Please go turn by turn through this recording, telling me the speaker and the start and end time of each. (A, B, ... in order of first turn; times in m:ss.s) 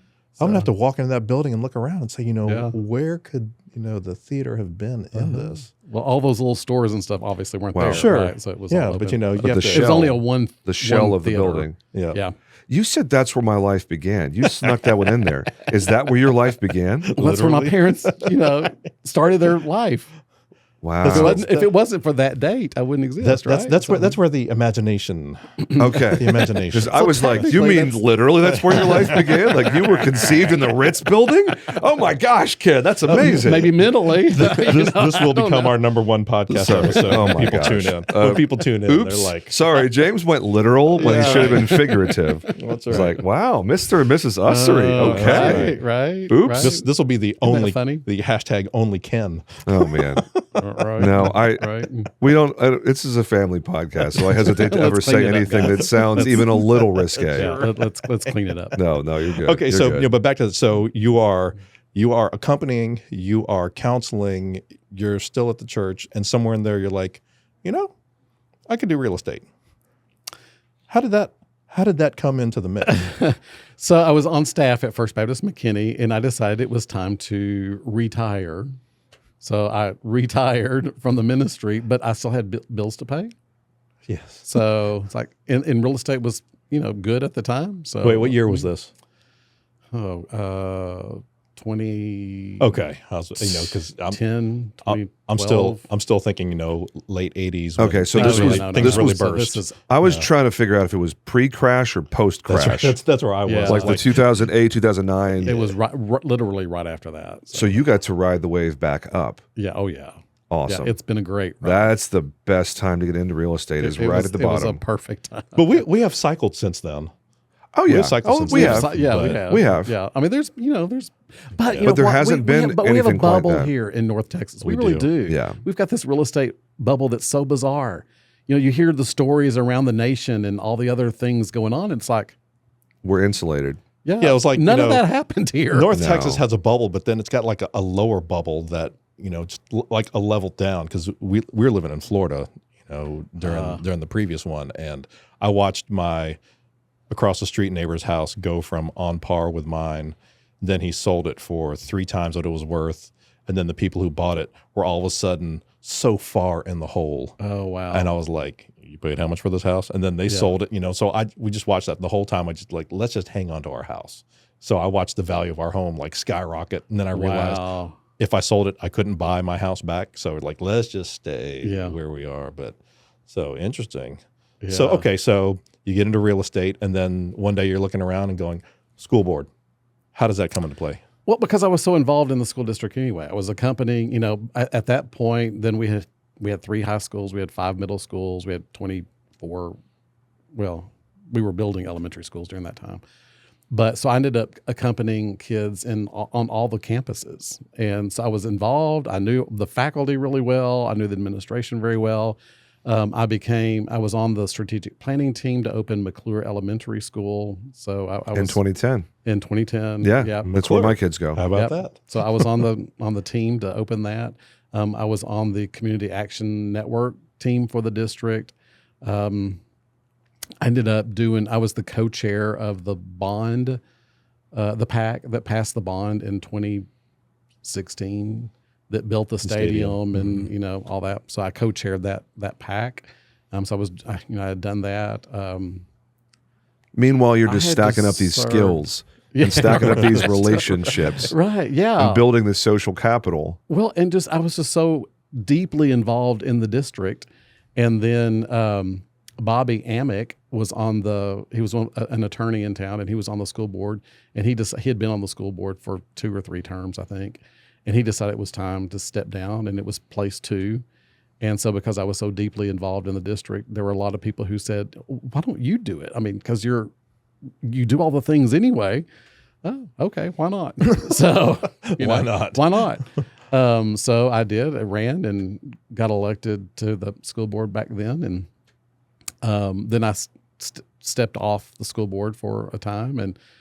0:00.4-0:00.7 A
0:00.4-0:05.7 B
0:02.5-0:02.7 A
0:05.1-0:12.3 A
0:07.7-0:08.1 C
0:07.9-0:10.0 B
0:09.4-0:11.8 C
0:11.9-0:12.2 B
0:12.7-0:17.1 C
0:14.6-0:15.1 B
0:17.0-0:18.7 B
0:17.2-0:20.1 A
0:20.8-0:21.4 C
0:21.0-0:21.7 B
0:21.0-0:24.2 A
0:23.2-0:27.6 B
0:25.8-0:33.9 C
0:26.9-0:28.0 A
0:28.4-0:29.4 B
0:28.7-0:29.5 A
0:33.0-0:35.8 A
0:34.2-0:39.6 B
0:36.5-0:46.7 C
0:36.8-0:37.7 A
0:40.9-0:43.1 A
0:41.0-0:41.8 B
0:42.5-0:43.2 B
0:44.4-0:46.9 A
0:45.0-0:45.8 B
0:46.6-0:50.6 B
0:47.4-0:48.0 A
0:49.6-0:50.2 C
0:50.5-0:52.1 A
0:51.0-0:57.6 C
0:54.1-0:56.7 A
0:56.1-0:57.8 B
0:57.2-0:58.8 A
0:58.8-1:00.1 C
0:59.4-1:07.9 B
1:08.7-1:09.4 B
1:10.9-1:13.1 B
1:12.8-1:18.7 A
1:19.4-1:23.3 A
1:24.1-1:24.5 B
1:24.4-1:28.7 A
1:28.0-1:28.9 B
1:29.9-1:32.7 A
1:32.6-1:34.2 B
1:33.4-1:35.8 A
1:34.8-1:40.3 B
1:37.8-1:39.3 C
1:38.1-1:39.8 A
1:39.8-1:43.0 C
1:42.5-1:44.2 B
1:43.4-1:44.0 A
1:43.6-1:45.7 C
1:45.4-1:47.8 A
1:47.5-1:49.4 C
1:49.6-1:51.9 A
1:50.5-1:50.9 C
1:51.6-1:54.8 C
1:53.8-1:55.8 A
1:55.5-1:57.1 B
1:57.7-1:59.9 C
1:57.8-1:59.4 B
1:58.5-2:12.4 A
2:01.6-2:01.9 B
2:01.8-2:03.7 C
2:04.6-2:05.1 B
2:05.2-2:05.6 C
2:13.0-2:13.8 C
2:14.0-2:15.9 A
2:14.2-2:15.0 B
2:15.7-2:26.4 B
2:15.9-2:16.4 C
2:23.4-2:23.8 A
2:27.1-2:37.4 B
2:37.4-2:38.1 A
2:37.9-2:47.7 B
2:40.3-2:40.5 A
2:47.1-2:48.0 A
2:48.2-2:59.5 B
2:51.6-2:52.0 A
2:54.6-2:55.1 A
3:00.1-3:01.0 B
3:01.3-3:09.8 A
3:10.5-3:13.0 A
3:13.7-3:28.6 A
3:28.3-3:29.1 C
3:29.2-3:31.0 A
3:30.0-3:31.4 C
3:30.4-3:32.6 B
3:31.5-3:39.6 A
3:40.6-3:43.8 A
3:44.5-3:46.9 A
3:47.6-3:55.8 A
3:49.4-3:50.5 B
3:57.0-4:01.3 C
3:57.4-4:02.2 A
4:02.0-4:03.6 C
4:03.7-4:20.8 A
4:21.4-4:26.9 A
4:27.6-4:29.0 A
4:29.6-4:38.5 A
4:31.8-4:32.9 B
4:39.4-4:43.4 A